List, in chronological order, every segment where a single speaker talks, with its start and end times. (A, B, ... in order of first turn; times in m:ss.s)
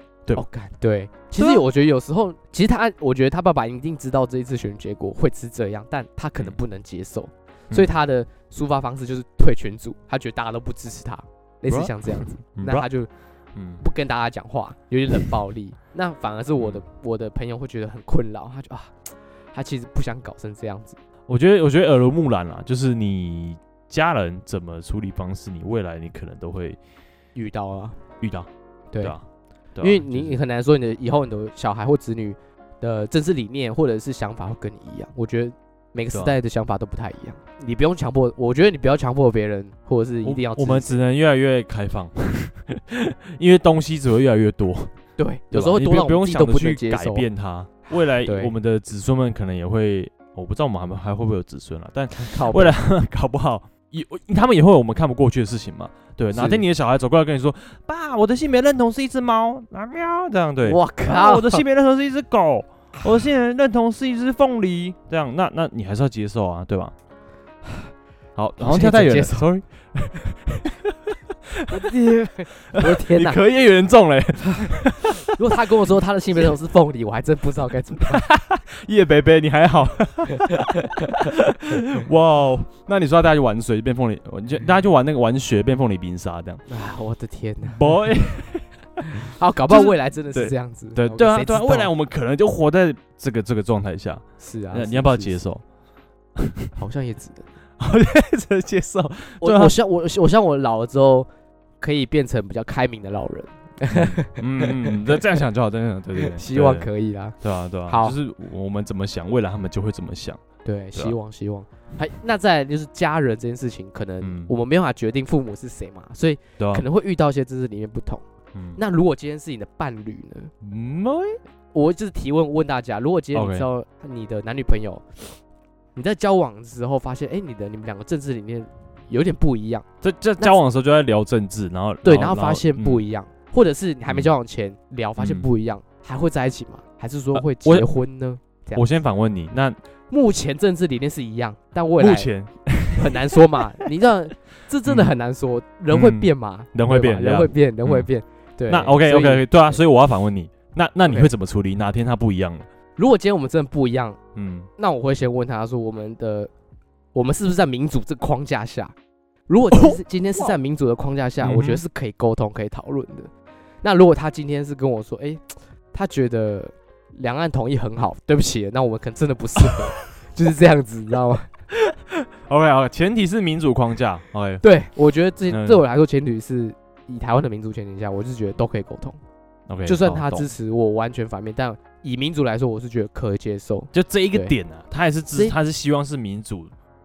0:00.3-0:13.1 A
0:01.4-0:01.6 B
0:11.7-0:12.9 B
0:13.5-0:13.8 B
0:13.8-0:21.0 A
0:16.6-0:16.8 B
0:21.3-0:26.8 B
0:27.3-0:28.0 A
0:28.2-0:28.5 B
0:29.8-0:30.4 B
0:29.8-0:41.0 A
0:36.1-0:36.4 B
0:40.2-0:44.9 B
0:45.2-0:47.2 A
0:45.5-1:06.9 B
0:48.2-0:48.5 A
0:52.1-0:52.8 A
0:56.3-0:56.6 A
1:00.6-1:01.6 A
1:08.4-1:11.7 B
1:08.6-1:09.5 A
1:11.7-1:13.4 A
1:12.6-1:15.3 B
1:15.3-1:18.2 A
1:18.1-1:26.6 B
1:20.6-1:21.1 A
1:26.7-1:28.0 A
1:27.6-1:28.7 B
1:29.0-1:31.9 A
1:29.7-1:35.6 B
1:34.4-1:35.4 A
1:36.4-1:36.7 B
1:36.7-1:37.5 A
1:37.8-1:39.8 B
1:39.4-1:41.3 A
1:41.8-1:45.2 A
1:43.9-1:46.9 B
1:46.2-1:48.2 A
1:47.4-1:50.4 B
1:50.6-1:58.2 A
1:54.2-1:54.5 B
1:56.6-1:56.8 B
1:58.8-2:00.5 A
2:00.6-2:01.4 B
2:01.7-2:05.3 A
2:03.3-2:03.7 B
2:05.9-2:09.8 A
2:10.0-2:13.0 B
2:12.0-2:18.9 A
2:14.1-2:14.3 B
2:15.2-2:15.5 B
2:17.3-2:17.9 B
2:18.7-2:19.8 B
2:20.1-2:22.3 A
2:22.0-2:23.4 B
2:23.0-2:29.8 A
2:24.8-2:25.1 B
2:25.9-2:28.1 B
2:28.7-2:32.7 B
2:31.0-2:31.3 A
2:33.0-2:34.2 A
2:34.3-2:34.7 B
2:34.8-2:36.5 A
2:37.1-2:38.9 A
2:39.5-2:43.3 A
2:41.4-2:41.8 B
2:43.8-2:51.5 A
2:51.7-2:54.6 B
2:54.6-2:59.2 A
2:55.5-2:55.8 B
2:59.7-3:00.5 B
2:59.8-3:04.5 A
3:03.9-3:06.7 B